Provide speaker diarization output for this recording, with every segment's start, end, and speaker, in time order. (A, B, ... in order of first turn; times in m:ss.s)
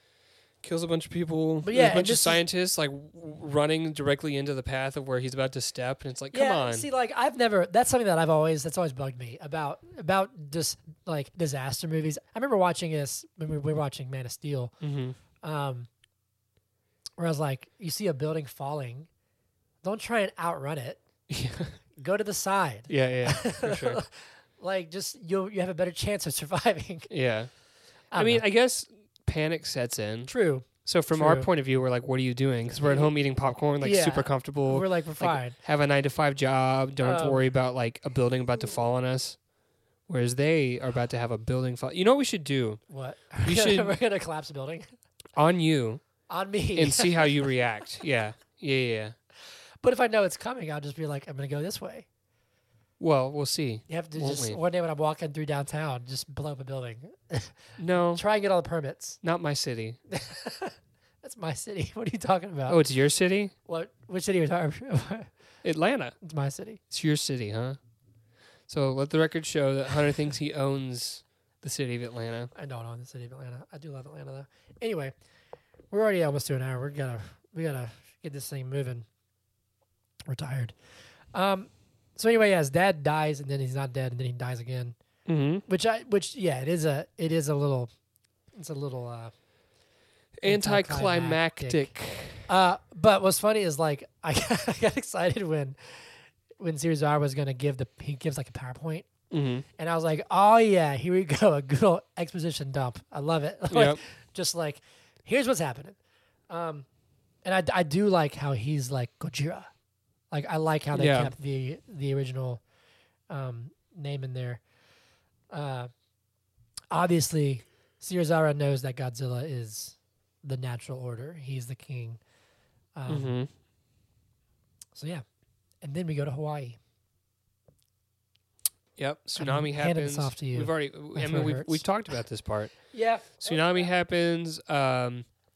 0:00.6-0:06.9 A
0:01.6-0:02.4 B
0:06.3-0:14.7 B
0:14.8-0:15.2 A
0:15.4-0:15.9 B
0:17.2-0:19.1 B
0:19.8-0:21.0 B
0:21.3-0:21.8 A
0:22.0-0:27.1 B
0:22.9-0:24.0 A
0:27.1-0:27.5 A
0:28.1-0:28.4 B
0:28.1-0:30.3 A
0:30.2-0:31.5 B
0:30.8-0:39.4 A
0:32.7-0:33.1 B
0:33.8-0:35.6 B
0:37.0-0:37.4 B
0:40.1-0:42.8 A
0:42.9-0:44.8 B
0:43.4-0:43.9 A
0:45.4-0:46.0 A
0:46.3-0:47.4 B
0:46.8-0:49.2 A
0:49.8-0:52.1 B
0:53.0-0:54.6 A
0:53.9-0:57.6 B
0:57.8-0:58.2 A
0:58.1-0:59.2 B
0:59.2-1:00.0 A
1:00.1-1:02.8 B
1:02.7-1:03.5 A
1:03.6-1:05.3 B
1:05.6-1:06.1 A
1:06.2-1:06.8 B
1:06.9-1:07.8 A
1:08.7-1:12.5 A
1:12.5-1:15.1 B
1:15.9-1:19.1 B
1:20.3-1:20.7 B
1:21.3-1:25.0 B
1:25.2-1:25.6 A
1:25.7-1:27.9 B
1:28.5-1:29.3 B
1:30.4-1:32.5 A
1:30.4-1:31.9 B
1:32.5-1:39.1 B
1:39.3-1:39.6 A
1:39.8-1:46.0 B
1:43.7-1:44.0 A
1:46.5-1:46.8 B
1:47.4-1:49.7 B
1:50.3-1:52.6 B
1:50.9-1:51.3 A
1:53.3-1:54.6 B
1:55.5-1:55.9 B
1:56.9-2:02.2 B
2:03.0-2:03.3 B
2:03.1-2:03.5 A
2:04.9-2:05.2 B
2:05.8-2:06.8 B
2:09.0-2:12.8 A
2:09.4-2:11.8 B
2:12.9-2:13.9 B
2:13.4-2:15.3 A